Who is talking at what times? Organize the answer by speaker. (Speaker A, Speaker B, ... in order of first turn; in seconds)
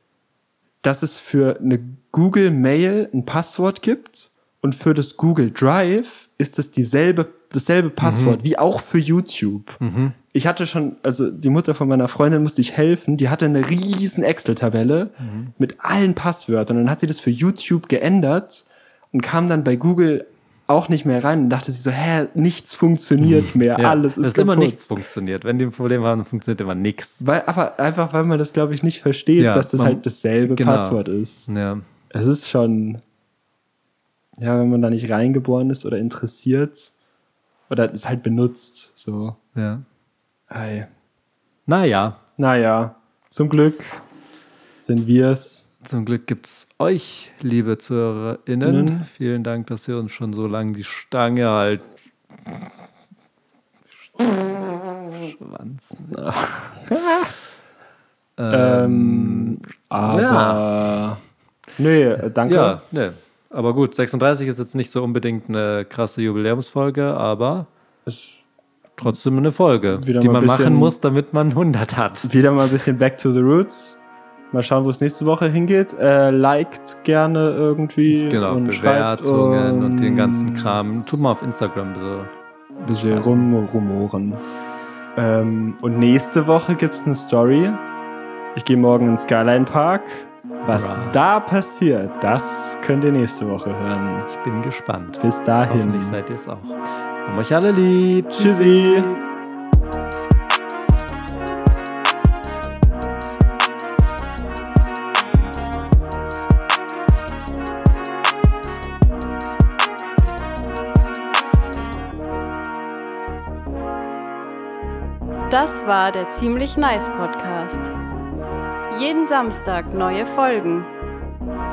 Speaker A: 0.8-9.8, 10.3-24.9, 27.2-31.5, 32.1-33.0, 34.4-36.9, 37.7-39.4, 40.5-40.9, 42.4-44.0, 44.8-45.7, 48.6-49.1, 56.1-57.3, 58.5-61.2, 61.8-62.8, 68.1-68.4, 69.9-71.0, 72.2-74.0, 74.5-81.3, 82.9-84.4, 85.2-87.8, 88.5-94.3, 95.2-96.2, 98.4-99.1
Speaker B: 8.0-8.4, 9.8-10.2, 15.2-15.5, 23.2-27.2, 29.4-31.9, 39.5-39.9, 41.7-42.2, 45.8-51.9, 54.2-56.2, 58.4-60.7, 62.5-67.7, 69.0-72.3, 78.1-83.5, 90.7-91.2, 94.3-99.2
Speaker C: 115.5-117.9, 118.9-120.9